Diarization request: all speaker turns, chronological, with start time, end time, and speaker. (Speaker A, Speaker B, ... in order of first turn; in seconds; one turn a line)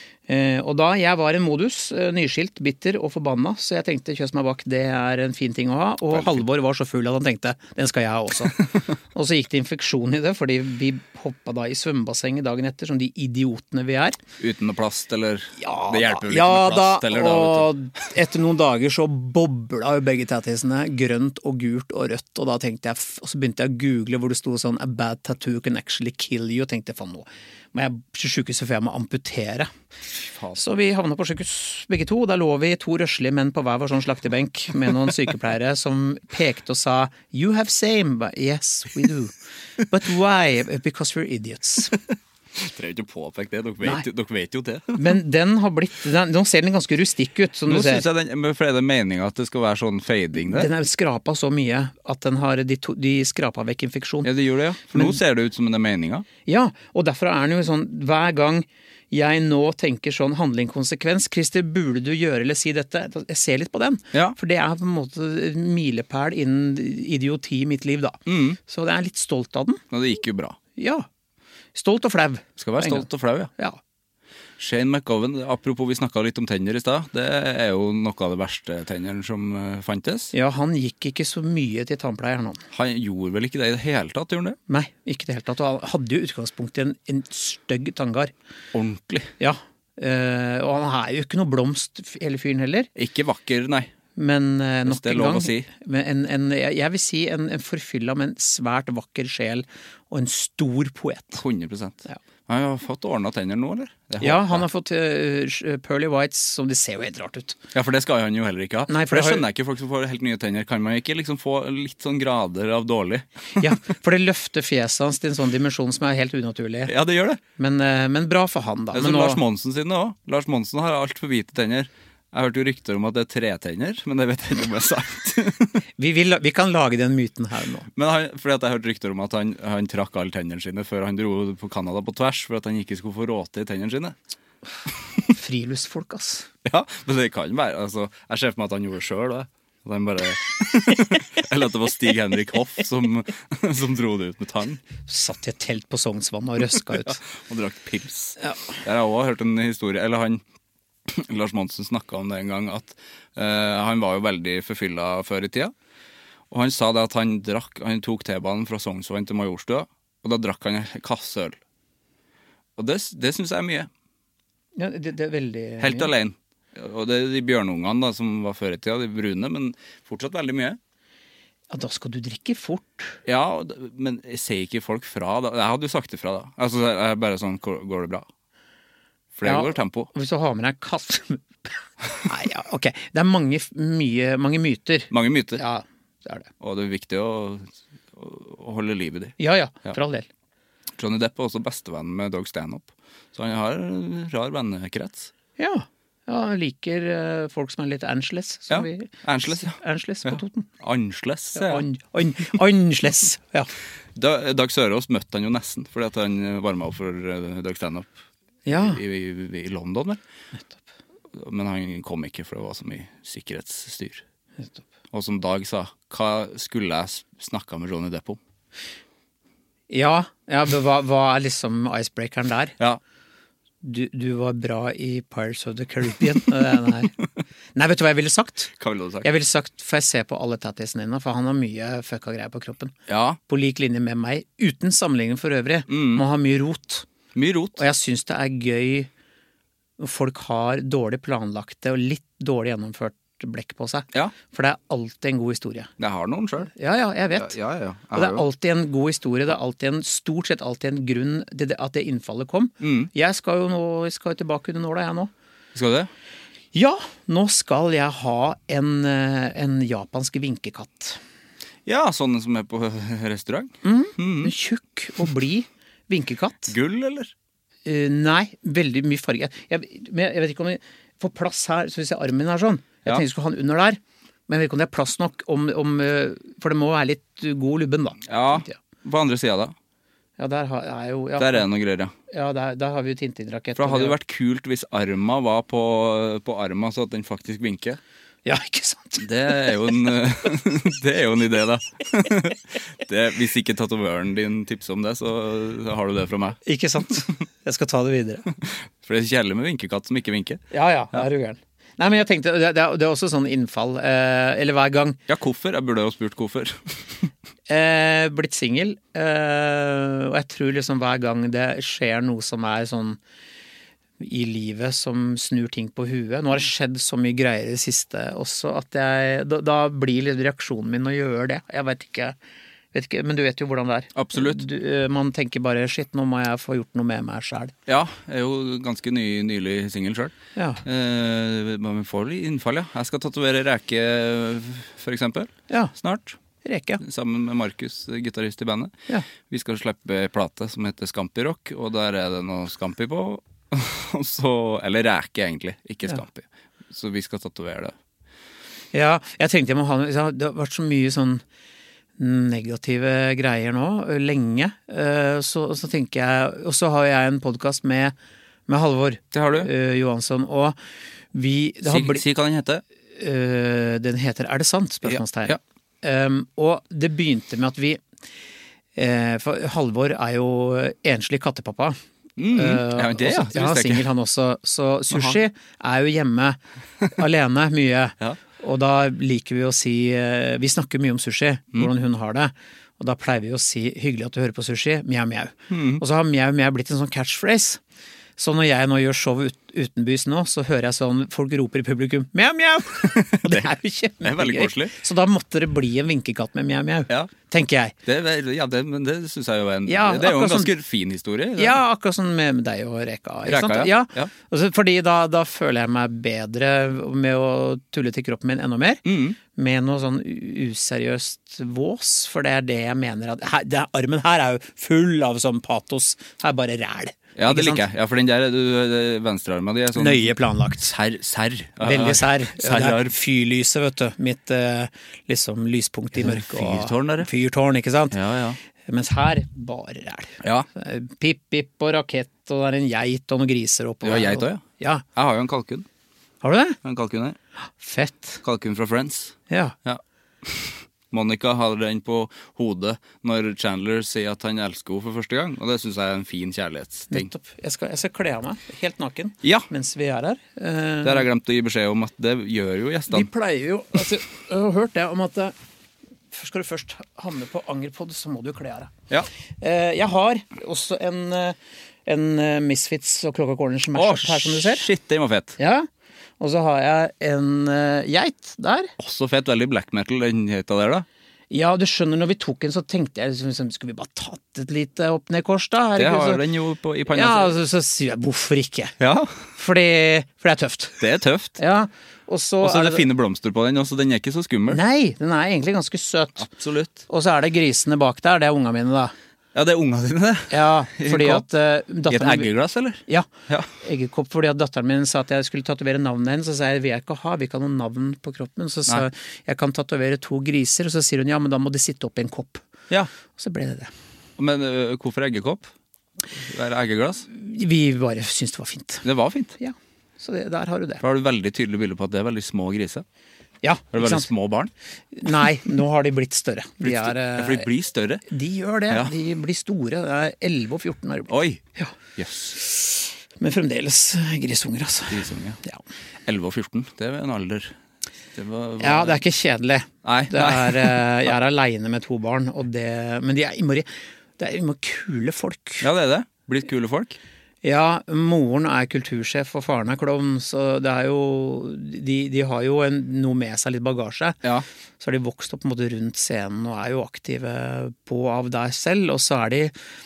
Speaker A: 0.3-8.6
Speaker B: 6.1-6.4
Speaker A: 9.1-14.2
Speaker B: 14.4-17.7
Speaker A: 15.6-29.7
Speaker A: 30.5-39.3
Speaker A: 39.9-41.9
Speaker B: 42.5-45.0
Speaker A: 44.9-48.0
Speaker B: 47.7-50.7
Speaker A: 50.5-54.3
Speaker B: 54.2-56.3
Speaker A: 54.9-55.2
Speaker A: 56.5-69.8
Speaker B: 68.3-68.6
Speaker B: 69.9-70.6
Speaker A: 70.8-71.0
Speaker A: 71.7-73.8
Speaker B: 72.6-73.5
Speaker B: 74.6-80.3
Speaker A: 80.3-82.6
Speaker B: 82.7-84.6
Speaker A: 84.7-88.3
Speaker B: 88.7-89.3
Speaker A: 89.4-92.9
Speaker B: 93.0-93.9
Speaker A: 94.2-101.4
Speaker B: 94.8-95.7
Speaker B: 101.3-104.7
Speaker A: 104.2-107.6
Speaker B: 107.7-113.7
Speaker A: 108.9-109.4
Speaker A: 113.6-116.9
Speaker B: 116.9-117.4
Speaker A: 117.6-119.4
Speaker B: 118.9-125.8
Speaker A: 126.0-127.9
Speaker B: 128.0-134.2
Speaker A: 135.3-136.4
Speaker B: 136.6-144.8
Speaker A: 145.1-147.2
Speaker B: 147.0-150.4
Speaker B: 151.1-155.7
Speaker B: 156.5-161.6
Speaker B: 162.8-163.9
Speaker A: 164.8-166.1
Speaker B: 165.8-170.8
Speaker A: 171.7-173.2
Speaker B: 173.2-178.2
Speaker B: 179.3-180.1
Speaker A: 179.4-181.7
Speaker A: 182.2-186.5
Speaker B: 185.1-185.6
Speaker B: 186.6-190.0
Speaker A: 189.4-190.3
Speaker B: 191.0-195.3
Speaker A: 195.6-200.7
Speaker B: 198.7-201.8
Speaker A: 201.5-203.7
Speaker B: 204.2-208.1
Speaker A: 208.7-209.0
Speaker B: 208.7-210.2
Speaker B: 211.3-214.2
Speaker B: 215.1-218.4
Speaker A: 219.9-222.7
Speaker A: 223.8-227.1
Speaker A: 227.7-228.7
Speaker B: 228.8-229.3
Speaker A: 229.2-232.9
Speaker B: 233.1-233.4
Speaker A: 233.5-237.1
Speaker B: 235.9-236.2
Speaker B: 237.3-237.8
Speaker A: 237.8-239.1
Speaker A: 240.0-245.9
Speaker B: 246.0-246.7
Speaker A: 246.7-247.5
Speaker B: 247.3-248.4
Speaker A: 248.1-255.3
Speaker B: 252.8-253.1
Speaker B: 255.7-256.1
Speaker A: 256.7-261.2
Speaker B: 261.9-264.5
Speaker A: 263.8-266.7
Speaker B: 266.7-267.3
Speaker A: 267.8-278.8
Speaker B: 278.3-279.7
Speaker A: 280.4-281.7
Speaker B: 281.4-282.1
Speaker A: 282.3-284.1
Speaker B: 283.8-288.0
Speaker A: 288.4-289.2
Speaker B: 289.2-296.6
Speaker A: 296.6-298.4
Speaker B: 298.6-301.2
Speaker A: 300.7-305.2
Speaker B: 305.3-306.8
Speaker A: 307.7-313.2
Speaker A: 314.2-322.4
Speaker A: 322.9-327.7
Speaker B: 324.1-324.6
Speaker B: 327.9-336.4
Speaker A: 330.6-330.8
Speaker A: 336.6-337.0
Speaker B: 337.0-347.9
Speaker A: 348.9-351.4
Speaker A: 352.2-358.1
Speaker A: 358.7-360.8
Speaker B: 359.3-359.7
Speaker A: 361.3-362.2
Speaker B: 361.8-362.8
Speaker A: 363.1-368.0
Speaker B: 365.0-365.6
Speaker A: 368.9-372.0
Speaker B: 372.4-374.0
Speaker A: 372.5-376.6
Speaker B: 375.1-375.4
Speaker A: 377.1-387.8
Speaker B: 385.7-386.0
Speaker A: 388.4-397.9
Speaker B: 393.0-394.9
Speaker B: 398.0-401.8
Speaker A: 399.9-400.7
Speaker A: 401.6-417.8
Speaker B: 403.4-404.3
Speaker B: 409.1-409.4
Speaker B: 417.4-423.1
Speaker A: 419.9-420.9
Speaker A: 421.8-428.1
Speaker B: 426.1-427.3
Speaker B: 428.1-428.6
Speaker A: 428.8-435.0
Speaker B: 434.0-434.6
Speaker B: 435.1-435.9
Speaker A: 436.4-436.8
Speaker B: 436.8-437.4
Speaker A: 437.8-438.4
Speaker B: 438.4-447.3
Speaker A: 439.5-439.8
Speaker A: 447.1-451.2
Speaker B: 449.4-449.7
Speaker B: 451.0-453.3
Speaker A: 453.1-455.5
Speaker A: 456.3-458.9
Speaker A: 459.6-464.9
Speaker B: 463.9-465.6
Speaker A: 465.6-465.9
Speaker A: 466.4-468.9
Speaker B: 469.0-471.1
Speaker A: 471.5-476.4
Speaker B: 476.0-477.5
Speaker A: 477.1-478.9
Speaker B: 479.0-479.4
Speaker A: 479.5-481.0
Speaker B: 481.0-481.6
Speaker A: 481.6-483.1
Speaker B: 482.6-484.8
Speaker A: 484.7-486.5
Speaker B: 486.4-487.1
Speaker A: 487.1-489.1
Speaker B: 489.5-491.5
Speaker A: 490.5-492.5
Speaker B: 492.1-493.7
Speaker A: 493.8-502.7
Speaker A: 503.2-503.9
Speaker B: 504.4-505.7
Speaker B: 506.4-507.2
Speaker A: 507.3-509.0
Speaker B: 509.0-509.5
Speaker A: 509.6-511.0
Speaker B: 511.0-513.0
Speaker A: 513.6-514.3
Speaker B: 513.9-514.7
Speaker A: 515.1-517.7
Speaker B: 516.8-518.2
Speaker A: 518.3-521.9
Speaker B: 521.3-521.6
Speaker B: 522.1-522.5
Speaker A: 522.5-525.8
Speaker B: 525.1-525.6
Speaker B: 526.2-527.7
Speaker B: 528.3-529.2
Speaker A: 528.8-535.9
Speaker B: 530.0-531.3
Speaker B: 535.8-537.2
Speaker A: 537.6-544.4
Speaker A: 545.0-549.7